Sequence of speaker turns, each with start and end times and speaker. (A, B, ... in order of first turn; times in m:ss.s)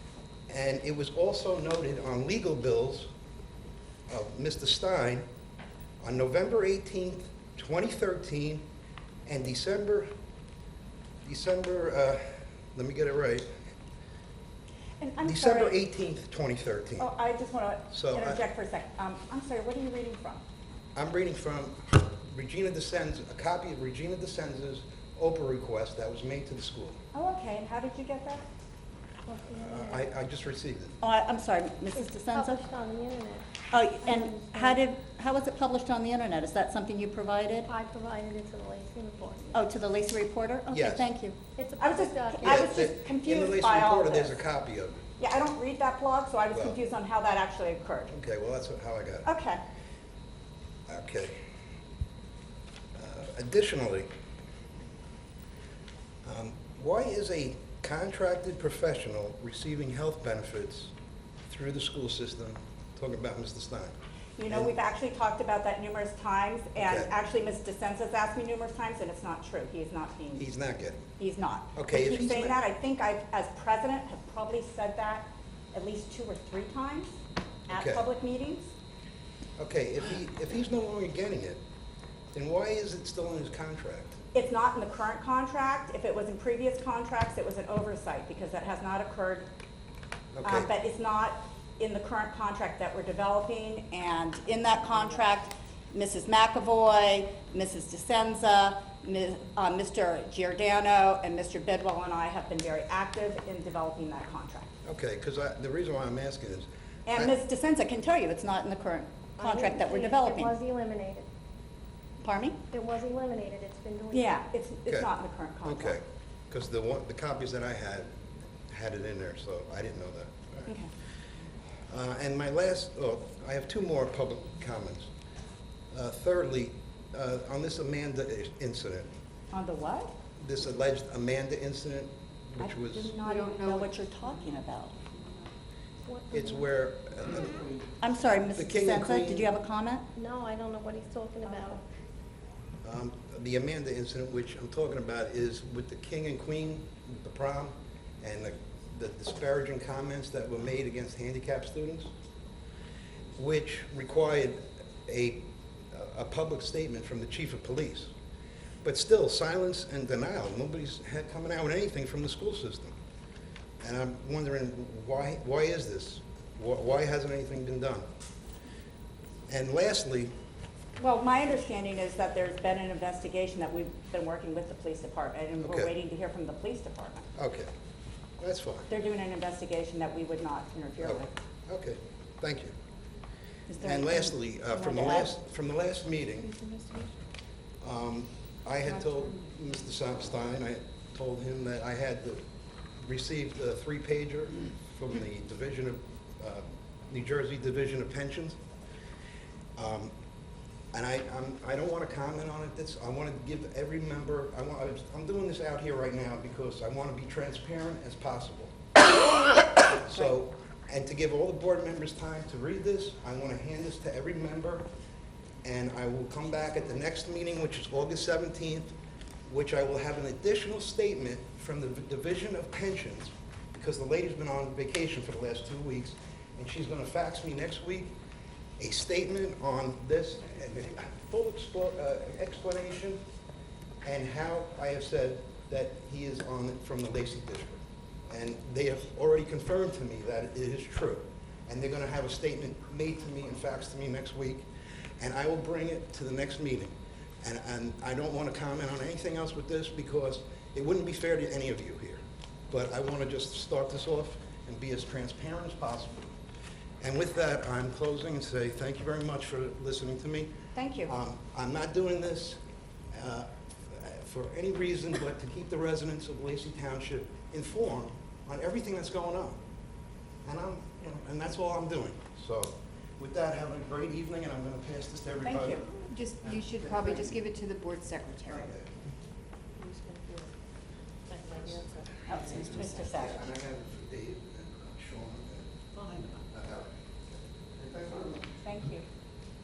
0:00.5-0:03.1 A
0:04.1-0:05.2 A
0:06.0-0:08.6 A
0:09.2-0:10.1 A
0:11.2-0:13.5 A
0:15.0-0:15.8 B
0:15.2-0:17.1 A
0:17.0-0:20.4 B
0:17.9-0:18.4 A
0:20.9-0:27.0 A
0:27.1-0:28.4 B
0:29.3-0:30.0 C
0:29.5-0:31.0 A
0:31.0-0:32.6 B
0:32.2-0:33.4 C
0:33.7-0:37.7 B
0:34.0-0:34.8 C
0:37.7-0:39.6 C
0:39.5-0:44.4 B
0:40.7-0:41.1 A
0:41.6-0:42.7 C
0:42.4-0:45.0 A
0:45.2-0:48.1 B
0:46.5-0:46.8 A
0:48.1-0:49.3 A
0:49.2-0:49.6 B
0:50.9-0:51.4 A
0:52.9-0:54.1 A
0:56.2-1:00.9 A
1:01.5-1:03.9 A
1:04.4-1:10.4 B
1:06.8-1:07.1 A
1:10.4-1:11.0 A
1:11.2-1:17.2 B
1:11.7-1:12.5 A
1:17.7-1:18.7 B
1:17.7-1:18.0 A
1:19.6-1:21.6 A
1:22.3-1:24.2 A
1:24.3-1:29.5 B
1:30.3-1:30.7 A
1:30.4-1:44.7 B
1:44.8-1:47.3 A
1:47.1-1:50.5 B
1:49.4-1:51.2 C
1:52.2-1:52.6 B
1:52.7-1:54.4 C
1:54.1-1:56.0 B
1:55.6-1:58.1 A
1:58.7-2:00.7 A
2:01.9-2:05.1 A
2:05.9-2:09.1 A
2:09.5-2:10.1 B
2:10.4-2:13.1 A
2:12.6-2:14.9 B
2:13.2-2:15.3 D
2:16.0-2:16.7 C
2:16.3-2:17.7 A
2:18.0-2:20.0 B
2:18.6-2:19.5 A
2:19.6-2:19.9 D
2:20.1-2:21.8 C
2:21.4-2:21.8 B
2:22.8-2:32.1 A
2:33.4-2:38.1 A
2:38.8-2:42.9 A
2:43.8-2:48.0 A
2:49.5-2:50.3 A
2:51.0-2:57.2 B
2:55.6-2:55.9 A
2:57.3-2:57.7 A
2:58.4-2:58.9 A
2:58.9-3:01.3 B
3:01.0-3:02.7 A
3:03.7-3:05.3 B
3:03.8-3:06.6 A
3:06.6-3:07.1 D
3:07.8-3:12.4 A
3:13.0-3:18.6 A
3:19.8-3:20.1 A
3:20.9-3:28.8 A
3:29.8-3:34.9 A
3:35.6-3:38.9 A
3:39.5-3:48.1 A
3:48.8-3:53.2 A
3:54.0-4:04.7 A
4:05.2-4:16.3 A
4:17.0-4:20.5 A
4:20.7-4:21.1 B
4:21.0-4:22.6 A
4:23.1-4:29.6 A
4:30.4-4:37.4 A
4:35.4-4:35.8 B
4:35.9-4:38.7 D
4:38.4-4:38.9 A
4:42.3-4:43.4 B
4:42.6-4:46.9 A
4:47.7-4:48.5 A
4:48.6-4:49.0 B